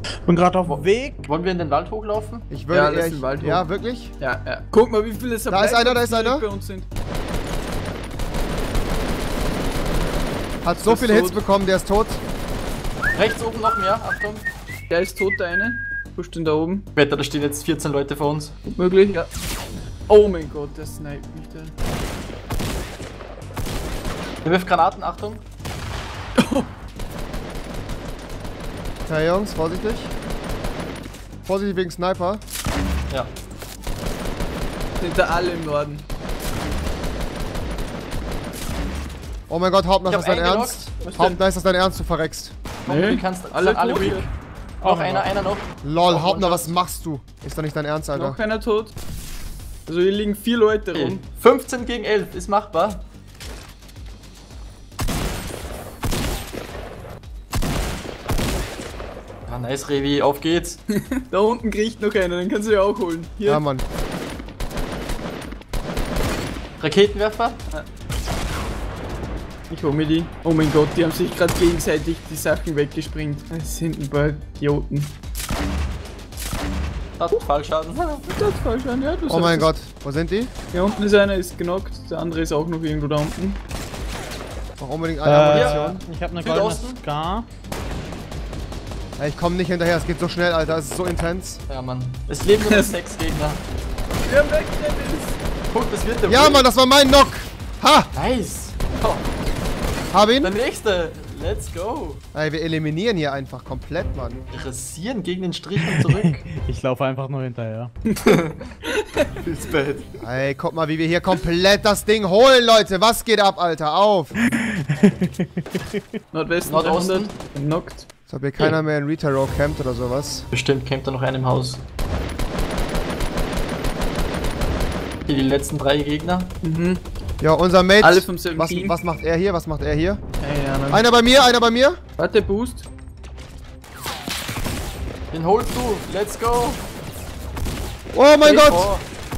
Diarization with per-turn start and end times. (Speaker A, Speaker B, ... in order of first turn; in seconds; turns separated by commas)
Speaker A: 0.2-1.3, Speaker B: 0.6-2.5, Speaker C: 2.5-4.1, Speaker D: 2.7-3.6, Speaker D: 4.2-6.8, Speaker C: 5.5-6.4, Speaker C: 10.6-12.2, Speaker D: 10.8-11.4, Speaker B: 13.1-14.4, Speaker D: 14.9-16.9, Speaker B: 16.9-18.5, Speaker D: 18.6-19.3, Speaker D: 20.1-21.7, Speaker B: 24.4-25.4, Speaker D: 26.4-26.7, Speaker C: 29.1-30.1, Speaker C: 31.4-32.4, Speaker D: 35.0-36.0, Speaker C: 39.5-42.5, Speaker B: 40.1-40.9, Speaker D: 41.0-41.4, Speaker B: 42.9-44.3, Speaker D: 42.9-44.3, Speaker B: 44.8-46.7, Speaker A: 44.8-45.3, Speaker C: 45.8-48.4, Speaker D: 48.1-48.9, Speaker D: 49.9-51.2, Speaker B: 50.9-53.0, Speaker B: 59.5-60.8, Speaker D: 60.9-63.6, Speaker C: 63.5-63.8, Speaker B: 66.8-67.6, Speaker D: 69.7-75.1, Speaker B: 77.2-78.2, Speaker D: 78.3-79.7, Speaker C: 79.3-80.5, Speaker D: 80.7-83.6, Speaker C: 84.8-86.0, Speaker A: 85.2-87.5, Speaker B: 85.4-87.0, Speaker C: 89.2-91.6, Speaker B: 91.7-93.6, Speaker D: 92.7-92.9, Speaker D: 94.2-95.4, Speaker B: 95.7-96.7, Speaker C: 96.3-98.1, Speaker B: 98.1-99.2, Speaker C: 100.1-100.5, Speaker B: 100.4-102.2, Speaker C: 102.3-104.4, Speaker B: 104.5-106.4, Speaker A: 105.8-107.9, Speaker B: 108.2-108.6, Speaker D: 108.8-109.3, Speaker B: 109.4-110.0, Speaker C: 110.2-114.3, Speaker A: 114.6-116.0, Speaker D: 116.3-118.0, Speaker B: 116.6-117.3, Speaker C: 118.3-120.5, Speaker B: 120.5-121.8, Speaker B: 125.2-126.5, Speaker D: 126.6-127.0, Speaker C: 127.4-130.2, Speaker D: 128.0-128.9, Speaker D: 130.4-131.0, Speaker C: 130.9-132.0, Speaker D: 132.2-132.8, Speaker B: 135.3-136.8, Speaker C: 138.1-138.9, Speaker B: 138.4-139.0